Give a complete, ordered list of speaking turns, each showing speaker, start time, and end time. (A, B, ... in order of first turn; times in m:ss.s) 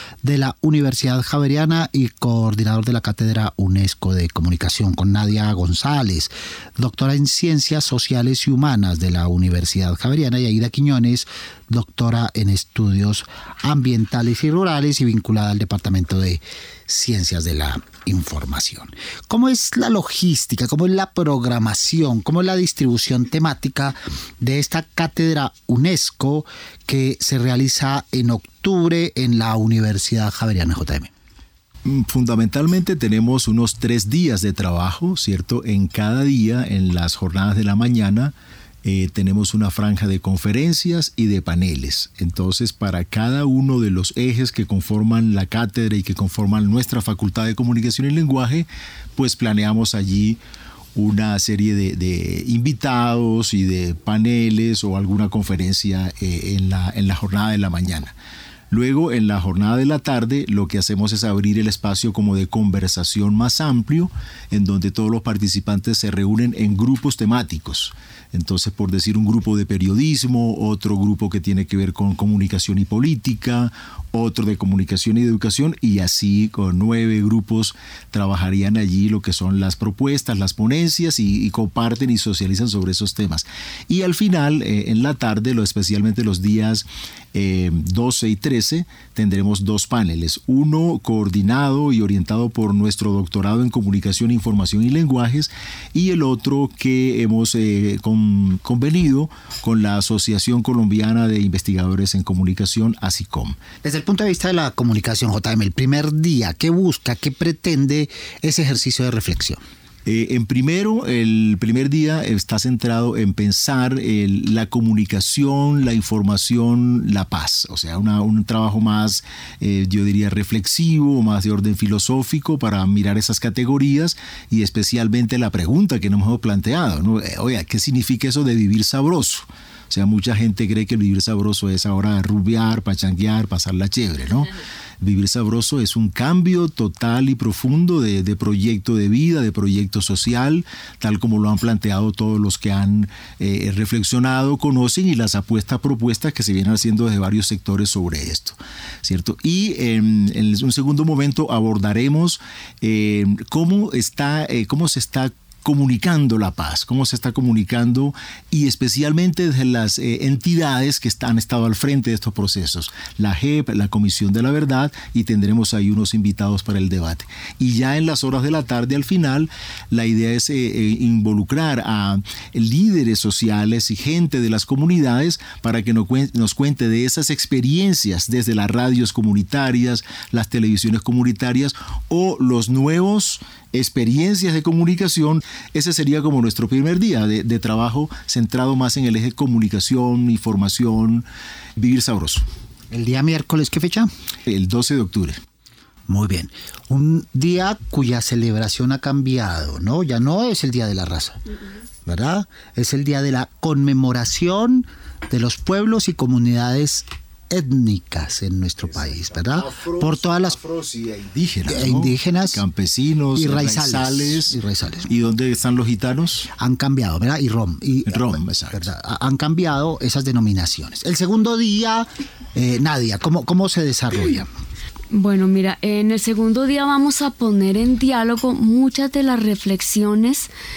0:00.2-0:31.1 A
0:31.8-0:50.4 B
0:51.0-0:58.1 B
0:58.7-1:43.6 B
1:43.8-1:49.6 A
1:50.1-2:14.5 B
2:15.0-3:11.2 B
3:11.8-3:12.4 B
3:12.9-3:14.1 A
3:14.5-3:15.4 B
3:16.1-3:21.4 A
3:22.0-3:30.6 A
3:29.4-3:34.6 B
3:31.7-3:32.6 A
3:33.4-3:35.1 A
3:35.1-3:36.5 B
3:36.6-3:44.5 A
3:38.1-3:38.9 B
3:45.1-3:50.5 C